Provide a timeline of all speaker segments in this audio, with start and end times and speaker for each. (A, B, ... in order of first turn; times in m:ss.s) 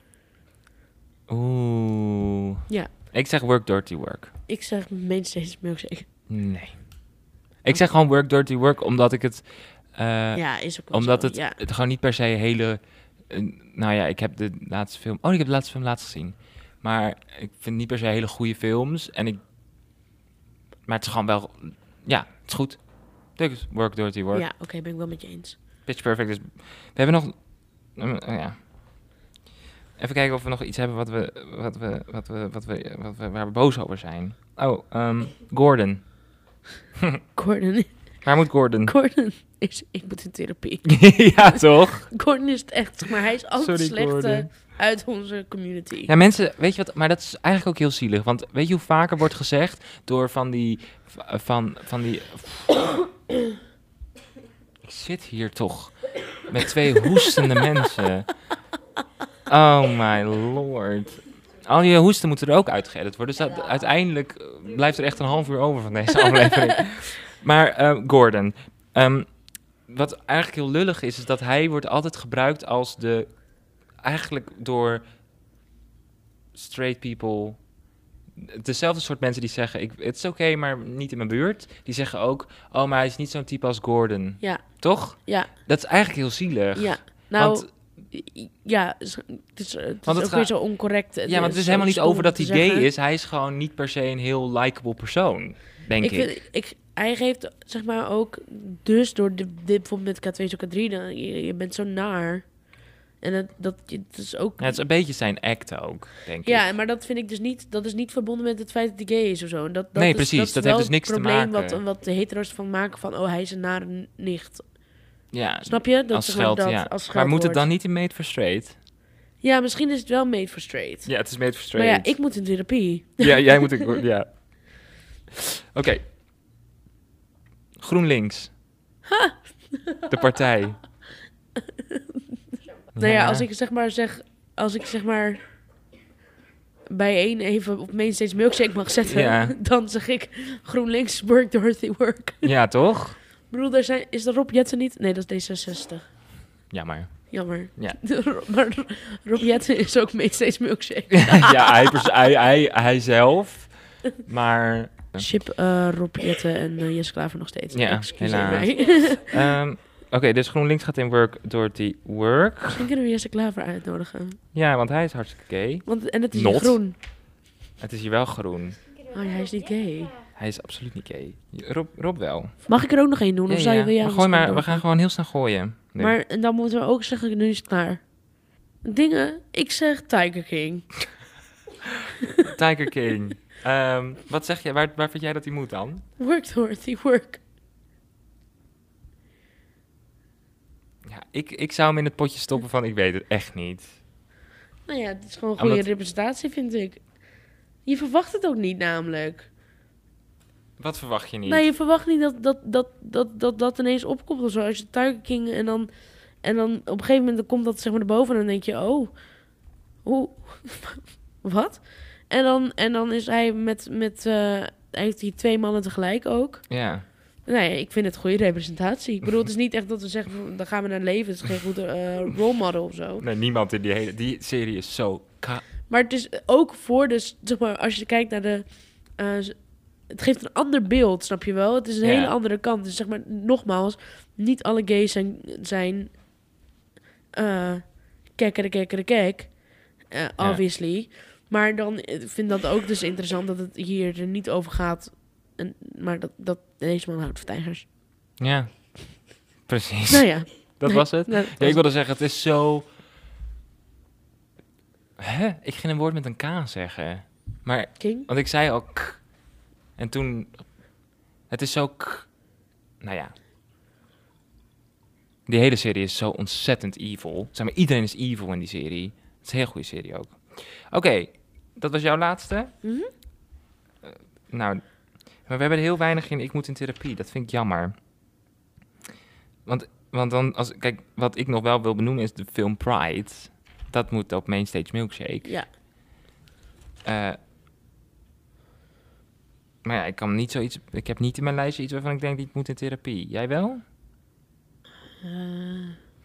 0:01.3-0:04.3 A
0:04.5-0:06.0 B
0:06.3-0:19.4 A
0:10.3-0:11.6 B
0:20.9-0:24.4 A
0:24.3-0:25.6 B
0:25.8-0:28.7 A
0:30.0-0:36.2 A
0:37.3-0:46.1 B
0:38.2-0:38.9 A
0:40.8-0:42.1 A
0:43.6-0:44.5 A
0:46.1-0:52.8 A
0:54.8-0:58.3 A
0:59.5-1:15.0 A
1:16.5-1:17.6 A
1:18.4-1:27.7 A
1:24.4-1:25.6 B
1:26.8-1:32.9 B
1:30.0-1:36.4 A
1:36.0-1:44.8 B
1:44.6-1:46.7 A
1:46.4-1:54.7 B
1:49.9-1:51.8 A
1:55.3-1:58.8 A
1:55.6-1:57.6 B
1:59.4-2:03.9 B
2:01.0-2:02.1 A
2:03.2-2:04.8 A
2:05.7-2:06.0 A
2:07.8-2:08.5 A
2:09.0-2:10.2 B
2:10.1-2:10.8 A
2:13.0-2:13.5 A
2:13.0-2:15.4 B
2:16.9-2:22.5 B
2:19.1-2:19.5 A
2:22.4-2:23.2 A
2:23.5-2:26.0 B
2:26.7-2:28.0 A
2:27.3-2:32.0 B
2:31.3-2:35.3 A
2:35.2-2:39.3 B
2:37.7-2:42.9 A
2:42.7-2:44.4 B
2:44.5-2:46.9 A
2:45.8-2:47.0 B
2:47.8-2:48.8 A
2:49.1-2:50.2 B
2:50.3-2:52.6 A
2:52.6-2:54.8 B
2:53.5-2:56.2 A
2:56.0-2:58.3 B
2:58.8-3:00.9 B
3:02.4-3:06.0 A
3:06.2-3:07.4 B
3:11.0-3:14.0 A
3:14.9-3:17.1 B
3:15.6-3:15.8 A
3:17.8-3:19.5 B
3:20.8-3:21.6 A
3:21.4-3:25.9 B
3:26.4-3:29.4 B
3:30.0-3:43.2 B
3:36.7-3:37.0 A
3:43.2-3:45.6 A
3:45.9-3:56.2 B
3:52.0-3:52.3 A
3:57.3-4:07.8 B
4:08.4-4:12.9 A
4:10.1-4:11.8 B
4:15.2-4:19.4 A
4:18.0-4:18.3 B
4:20.0-4:22.5 A
4:23.0-4:23.3 A
4:25.4-4:32.7 A
4:32.8-4:33.1 B
4:34.0-4:38.0 A
4:39.6-4:45.5 A
4:47.0-4:47.4 A
4:49.8-4:53.8 A
4:55.2-4:56.0 B